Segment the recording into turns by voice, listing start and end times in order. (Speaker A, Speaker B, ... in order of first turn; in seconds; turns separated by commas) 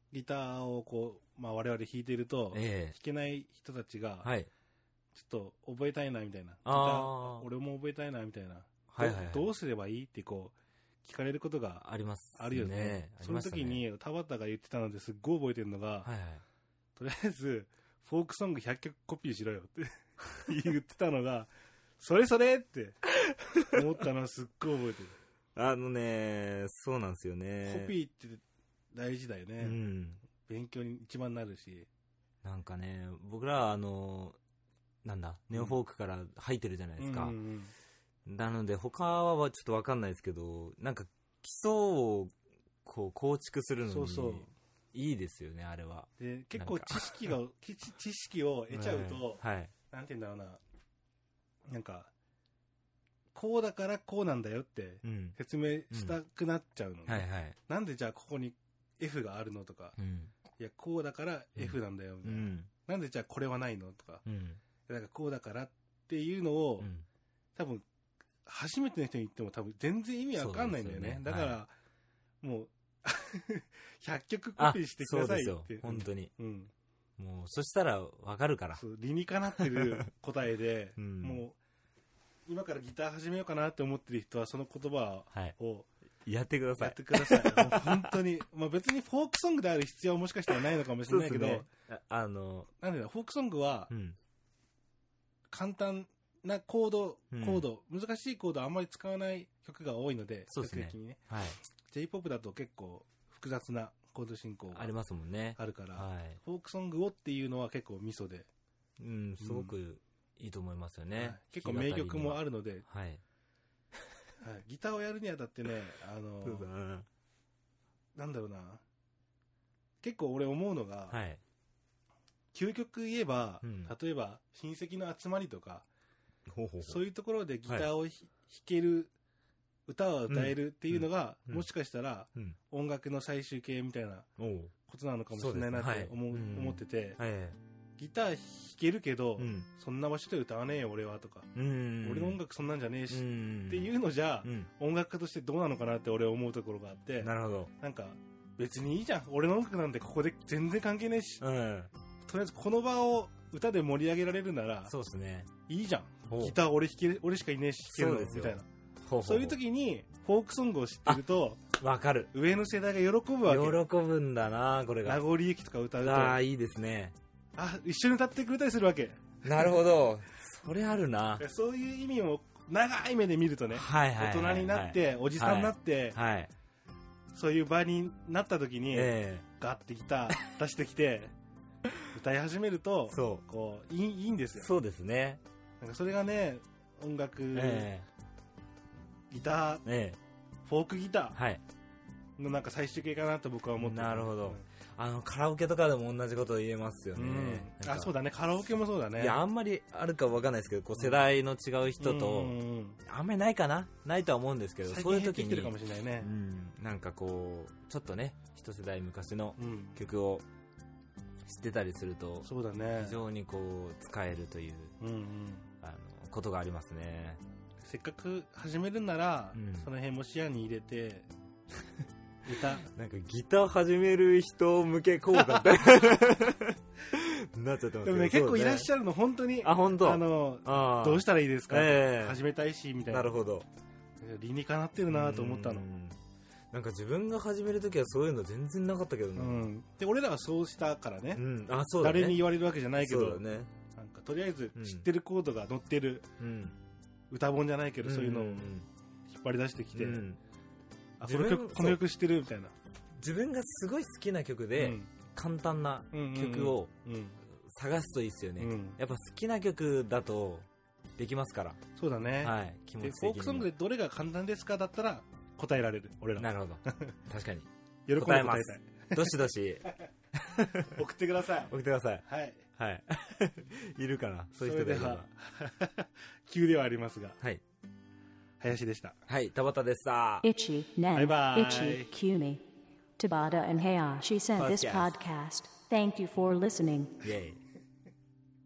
Speaker A: 0.1-4.3, Speaker B: 2.5-3.0, Speaker B: 4.2-4.5, Speaker A: 5.1-11.8, Speaker B: 6.7-7.5, Speaker B: 8.9-9.5, Speaker B: 11.8-13.8, Speaker A: 12.4-16.1, Speaker B: 16.0-16.4, Speaker A: 17.0-23.0, Speaker B: 23.3-23.7, Speaker A: 23.6-25.2, Speaker B: 25.6-27.9, Speaker A: 27.6-29.8, Speaker B: 29.6-30.2, Speaker A: 30.4-31.9, Speaker B: 32.4-34.4, Speaker B: 35.0-37.4, Speaker A: 35.5-35.8, Speaker A: 37.0-37.7, Speaker B: 38.2-47.4, Speaker A: 43.9-44.5, Speaker A: 46.2-50.6, Speaker B: 48.7-49.7, Speaker A: 51.7-52.1, Speaker A: 53.3-60.0, Speaker B: 55.0-55.4, Speaker B: 55.9-56.2, Speaker B: 57.1-57.6, Speaker B: 60.0-60.3, Speaker A: 60.6-64.2, Speaker B: 61.6-62.7, Speaker B: 64.2-64.6, Speaker A: 64.9-66.9, Speaker B: 66.8-67.1, Speaker A: 67.6-67.8, Speaker A: 68.5-71.7, Speaker B: 70.4-71.6, Speaker A: 72.4-76.7, Speaker B: 74.6-76.3, Speaker B: 77.2-78.8, Speaker A: 78.7-81.6, Speaker B: 79.5-80.0, Speaker B: 81.0-81.4, Speaker A: 82.5-85.9, Speaker B: 86.2-88.2, Speaker A: 86.8-91.7, Speaker B: 91.0-92.7, Speaker A: 92.8-93.9, Speaker B: 93.9-94.2, Speaker A: 95.5-104.9, Speaker B: 97.3-97.7, Speaker B: 100.5-101.6, Speaker B: 104.7-106.4, Speaker A: 105.6-108.5, Speaker B: 109.0-113.2, Speaker A: 109.4-109.7, Speaker A: 111.2-112.8, Speaker A: 114.4-116.7, Speaker B: 116.4-117.1, Speaker A: 118.2-118.8, Speaker A: 120.0-121.2, Speaker B: 121.1-121.4, Speaker A: 122.5-125.9, Speaker B: 123.6-123.9, Speaker B: 126.5-127.0, Speaker A: 126.8-129.1, Speaker A: 129.9-134.3, Speaker B: 130.3-131.7, Speaker B: 134.4-134.7, Speaker A: 134.9-137.2, Speaker B: 135.3-137.6, Speaker A: 138.0-141.5, Speaker B: 139.4-139.7, Speaker B: 141.6-142.4, Speaker A: 142.0-151.4, Speaker B: 143.1-143.9, Speaker B: 144.4-144.7, Speaker B: 147.2-147.7, Speaker B: 151.4-151.9, Speaker A: 152.3-154.9, Speaker B: 154.9-155.5, Speaker A: 155.7-158.7, Speaker B: 156.3-156.6, Speaker B: 157.9-159.6, Speaker A: 159.2-161.6, Speaker B: 161.1-162.3, Speaker A: 162.3-163.8, Speaker B: 163.5-165.2, Speaker A: 165.1-166.4, Speaker B: 166.0-167.2, Speaker A: 167.6-169.8, Speaker B: 169.4-171.5, Speaker A: 171.4-176.2, Speaker B: 173.7-176.5, Speaker A: 177.3-181.3, Speaker B: 178.9-179.5, Speaker A: 182.1-184.7, Speaker B: 183.1-183.4, Speaker B: 184.6-185.4, Speaker A: 185.8-187.9, Speaker B: 187.5-188.1, Speaker A: 189.3-189.8, Speaker B: 189.8-190.2, Speaker A: 190.7-191.4, Speaker B: 191.3-191.6, Speaker A: 192.4-194.6, Speaker B: 193.8-198.1, Speaker A: 197.2-199.4, Speaker B: 199.2-210.4, Speaker A: 202.0-203.0, Speaker A: 204.9-206.3, Speaker A: 209.6-210.0, Speaker B: 211.4-215.0, Speaker A: 212.4-213.2, Speaker A: 215.0-215.7, Speaker B: 215.8-217.4, Speaker A: 217.8-221.3, Speaker B: 219.5-219.9, Speaker A: 222.4-222.8, Speaker B: 222.8-228.9, Speaker A: 225.4-225.7, Speaker A: 228.0-233.4, Speaker B: 229.6-232.4, Speaker B: 233.1-233.7, Speaker A: 234.2-235.9, Speaker B: 235.1-236.2, Speaker B: 236.7-239.7, Speaker A: 239.3-241.4, Speaker B: 241.3-243.7, Speaker A: 242.0-246.3, Speaker B: 244.8-245.1, Speaker B: 246.4-246.8, Speaker A: 247.3-248.7, Speaker B: 248.0-248.9, Speaker A: 249.3-250.2, Speaker B: 249.9-250.4, Speaker A: 251.2-252.7, Speaker B: 251.2-252.0, Speaker B: 253.2-256.9, Speaker A: 254.8-255.1, Speaker A: 256.1-257.4, Speaker B: 257.5-261.8, Speaker A: 258.6-259.0, Speaker A: 262.0-267.2, Speaker B: 262.4-263.7, Speaker B: 266.4-271.0, Speaker A: 268.1-270.1, Speaker A: 270.8-271.7, Speaker B: 271.7-275.3, Speaker A: 272.2-272.7, Speaker A: 274.6-277.4, Speaker A: 278.6-279.2, Speaker B: 279.3-280.5, Speaker C: 280.4-282.6, Speaker A: 281.1-282.1, Speaker C: 283.2-287.2, Speaker B: 284.6-285.2, Speaker B: 287.2-287.6